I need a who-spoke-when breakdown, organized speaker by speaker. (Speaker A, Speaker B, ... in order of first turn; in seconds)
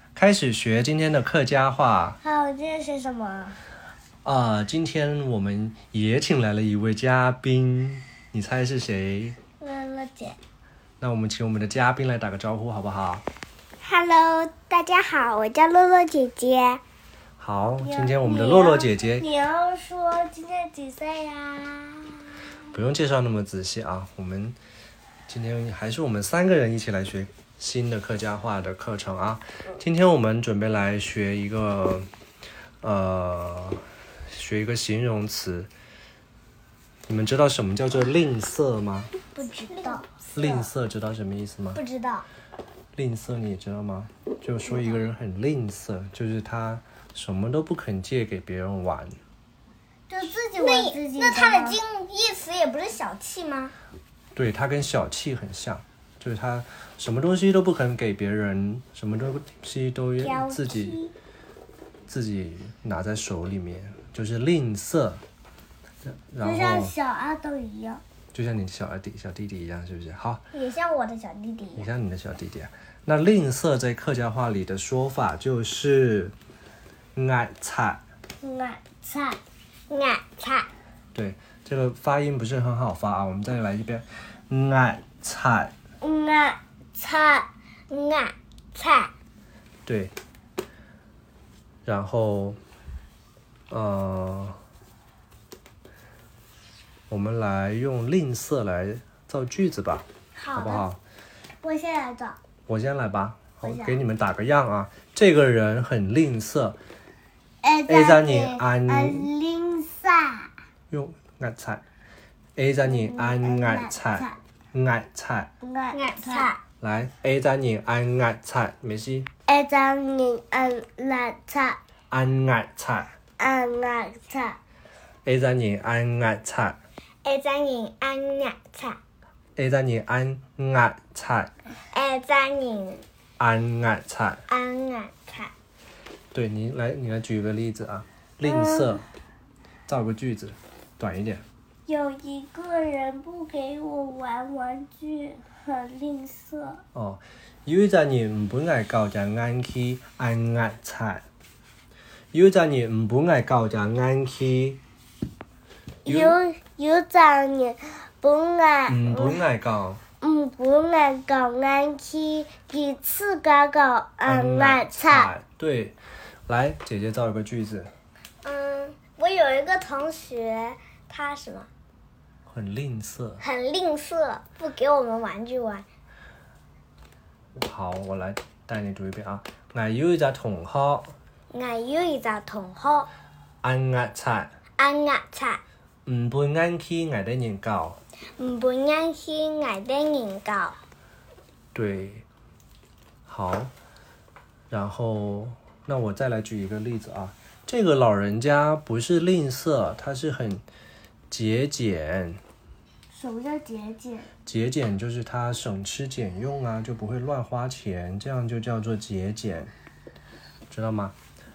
Speaker A: 0.1-2.2, 4.2-9.4, 11.0-13.2, 17.4-19.3, 22.7-24.6, 25.3-32.1, 32.8-35.7, 37.1-39.1, 40.3-41.8, 42.9-49.1, 54.4-61.0, 62.1-65.2, 66.0-66.9, 68.3-70.4, 71.8-76.3, 77.2-78.0, 81.1-85.7, 89.8-90.1, 91.8-92.6, 93.7-94.6, 97.1-101.0, 102.7-106.8, 107.9-109.3, 110.9-111.8, 112.5-115.5, 116.8-119.3, 122.1-123.1, 125.2-126.8, 129.6-131.5, 133.4-134.4, 136.3-139.0, 139.9-141.4, 146.9-151.2, 152.3-154.8, 156.0-156.4, 158.9-160.0, 164.2-166.0, 166.5-167.9, 172.5-173.4, 177.6-181.1, 183.6-184.5, 186.1-188.0, 191.7-192.2, 193.3-193.7, 194.7-200.6, 201.3-202.4, 204.4-209.7, 210.7-211.1
Speaker B: 2.2-3.6, 9.6-10.4, 17.8-22.5, 39.3-40.7, 44.7-45.0, 50.1-51.8, 66.4-68.0, 78.4-79.4, 86.0-87.5, 100.4-100.8, 101.6-102.4, 103.6-104.0, 107.6-110.5, 112.8-114.4, 115.6-116.5, 119.5-121.8, 123.4-124.6, 138.4-139.0, 141.9-146.8, 156.0-159.4, 160.2-165.3, 203.1-204.3
Speaker C: 13.8-16.8, 39.5-40.2, 41.8-42.2, 50.6-53.7, 60.2-61.1, 70.5-71.9, 79.9-80.7, 87.9-89.1, 115.9-116.6, 127.2-129.0, 131.9-133.0, 134.5-135.5, 168.4-171.7, 173.4-175.8, 181.5-183.1, 184.8-185.6, 188.4-190.8